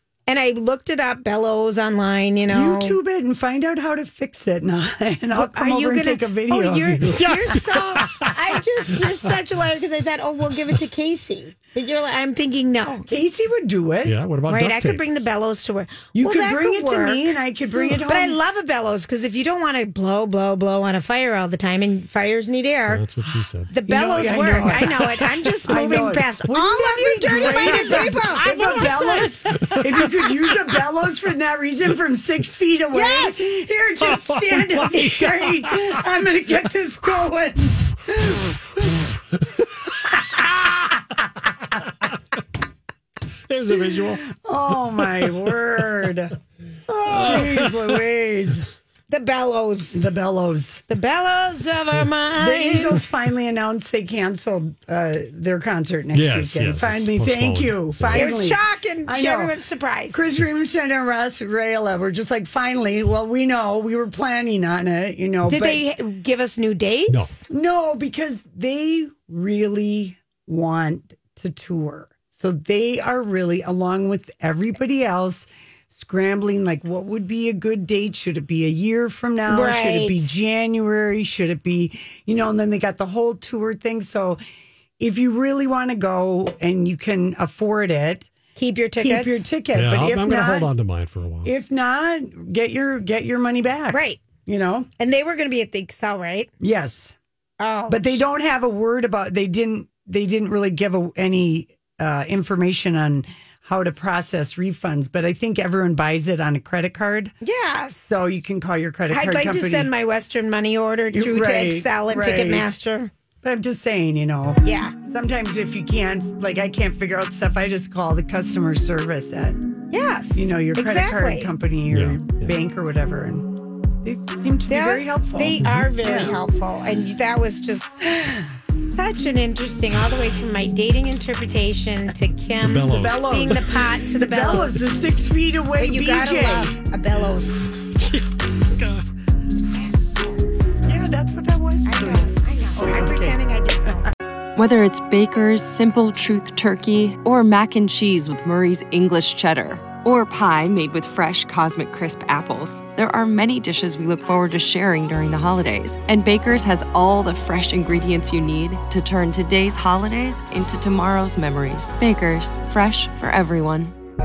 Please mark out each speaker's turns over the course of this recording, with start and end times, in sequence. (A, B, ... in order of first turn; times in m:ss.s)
0:00.3-0:03.0 A
0:02.5-0:07.2 B
0:05.3-0:13.1 A
0:07.1-0:08.1 C
0:13.1-0:14.2 B
0:14.0-0:15.0 C
0:14.5-0:23.1 A
0:16.1-0:18.4 B
0:22.9-0:23.7 C
0:23.7-0:29.8 A
0:23.9-0:39.0 B
0:32.9-0:33.5 A
0:34.3-0:36.0 C
0:43.5-0:44.3 C
0:44.0-0:46.3 B
0:46.9-0:47.4 A
0:47.1-0:48.7 B
0:47.1-0:47.4 C
0:49.1-0:50.0 A
0:49.9-0:50.8 B
0:50.9-0:53.1 A
0:52.4-0:59.6 B
0:56.1-0:58.4 C
0:58.1-1:00.2 A
1:00.1-1:05.8 B
1:05.4-1:07.4 A
1:07.5-1:24.4 B
1:19.5-1:20.3 A
1:25.0-1:28.3 B
1:28.6-1:29.5 A
1:29.0-1:30.7 B
1:29.7-1:31.5 C
1:31.4-1:34.9 B
1:33.9-1:34.3 A
1:35.0-1:36.5 A
1:36.6-1:37.2 B
1:37.6-1:38.2 A
1:37.9-1:47.4 B
1:47.4-1:48.2 A
1:48.0-1:49.9 B
1:49.1-1:53.1 A
1:51.1-1:52.8 B
1:53.4-1:59.6 B
1:54.6-1:54.9 A
1:59.9-2:01.5 A
2:00.4-2:06.4 B
2:01.9-2:02.5 C
2:04.7-2:08.2 A
2:05.6-2:05.9 C
2:08.1-2:08.4 B
2:08.9-2:14.8 A
2:12.6-2:13.5 C
2:12.8-2:16.8 B
2:15.8-2:17.7 A
2:19.6-2:20.8 A
2:20.9-2:23.4 B
2:21.9-2:24.0 A
2:24.6-2:43.9 D